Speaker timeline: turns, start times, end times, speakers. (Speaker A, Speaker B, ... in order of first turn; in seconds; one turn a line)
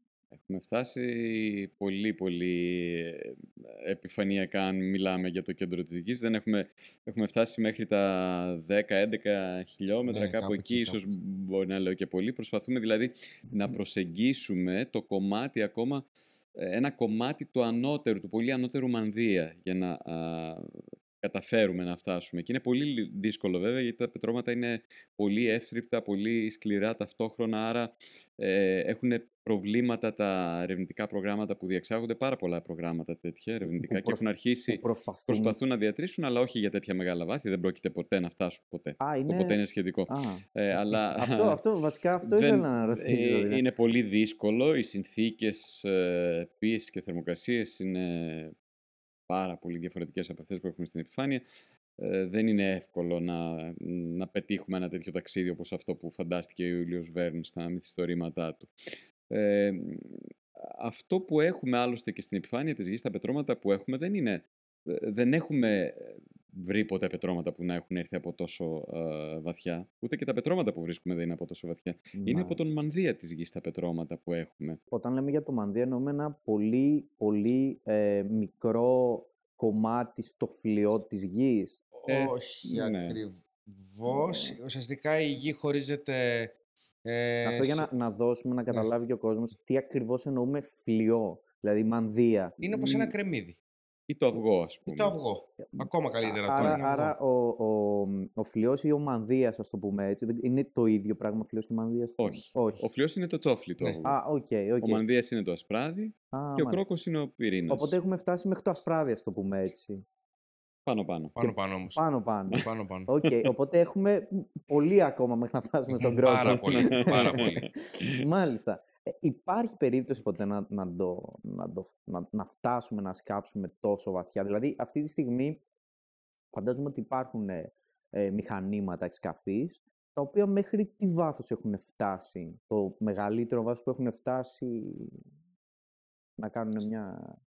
Speaker A: 0.3-16.0
Speaker B: 10.1-11.0
Speaker A: 16.6-48.5
Speaker C: 33.7-35.5
Speaker C: 39.0-39.6
Speaker C: 40.1-43.6
Speaker A: 49.3-51.4
Speaker A: 52.0-58.7
Speaker A: 59.3-74.8
Speaker C: 72.2-72.6
Speaker C: 74.9-81.8
Speaker B: 81.9-87.9
Speaker A: 82.1-83.2
Speaker C: 84.0-84.6
Speaker C: 87.4-93.0
Speaker B: 92.6-93.6
Speaker A: 94.1-95.1
Speaker B: 94.9-97.1
Speaker C: 95.7-102.8
Speaker A: 96.5-96.8
Speaker A: 102.2-104.2
Speaker C: 104.0-105.0
Speaker A: 104.8-107.9
Speaker C: 106.3-106.8
Speaker C: 107.7-110.0
Speaker A: 110.8-111.3
Speaker B: 111.3-112.0
Speaker C: 111.4-125.6
Speaker B: 112.5-113.1
Speaker B: 116.0-117.7
Speaker A: 116.5-118.2
Speaker C: 126.5-135.2
Speaker C: 136.4-137.4